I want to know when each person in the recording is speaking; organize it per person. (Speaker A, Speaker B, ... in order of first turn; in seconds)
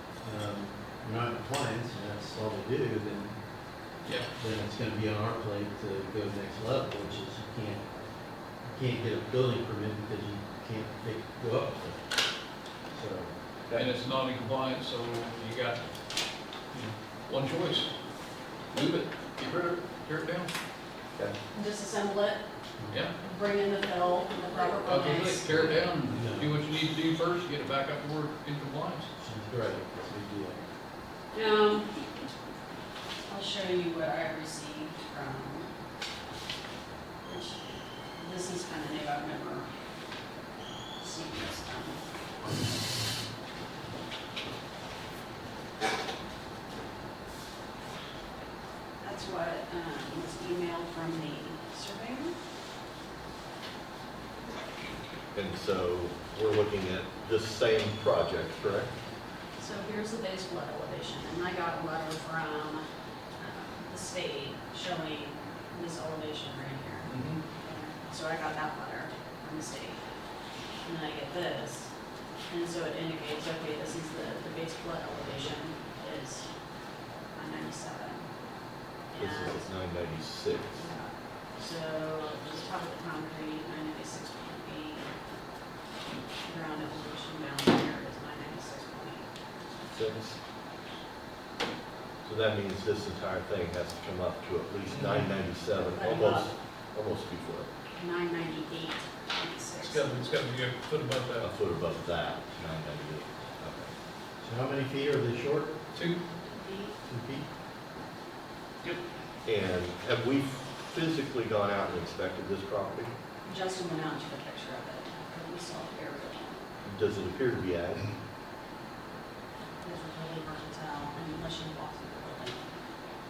Speaker A: 0.2-3.4, 4.3-7.9, 8.6-12.0, 12.9-13.3, 25.5-26.6, 29.2-30.6, 104.4-105.7, 107.1-107.5
Speaker B: 13.7-15.8, 16.7-17.9, 18.7-20.5, 24.9-29.1, 67.1-67.4, 94.9-95.3, 99.8-101.5, 105.9-106.2
Speaker C: 21.5-22.4, 23.2-25.5, 31.3-31.9, 33.3-35.7, 37.2-37.6, 38.2-39.7, 41.0-42.0, 49.0-52.3, 59.6-62.9, 63.4-70.0, 70.8-71.9, 72.5-76.5, 77.3-78.3, 79.1-79.7, 80.8-85.1, 86.5-89.3, 95.9-96.5, 98.0-100.4, 106.5-107.0, 113.5-116.7, 119.8-122.8
Speaker D: 55.4-58.9, 79.2-80.8, 89.9-90.4, 92.2-97.7, 101.4-103.9, 109.5-113.1, 116.8-118.1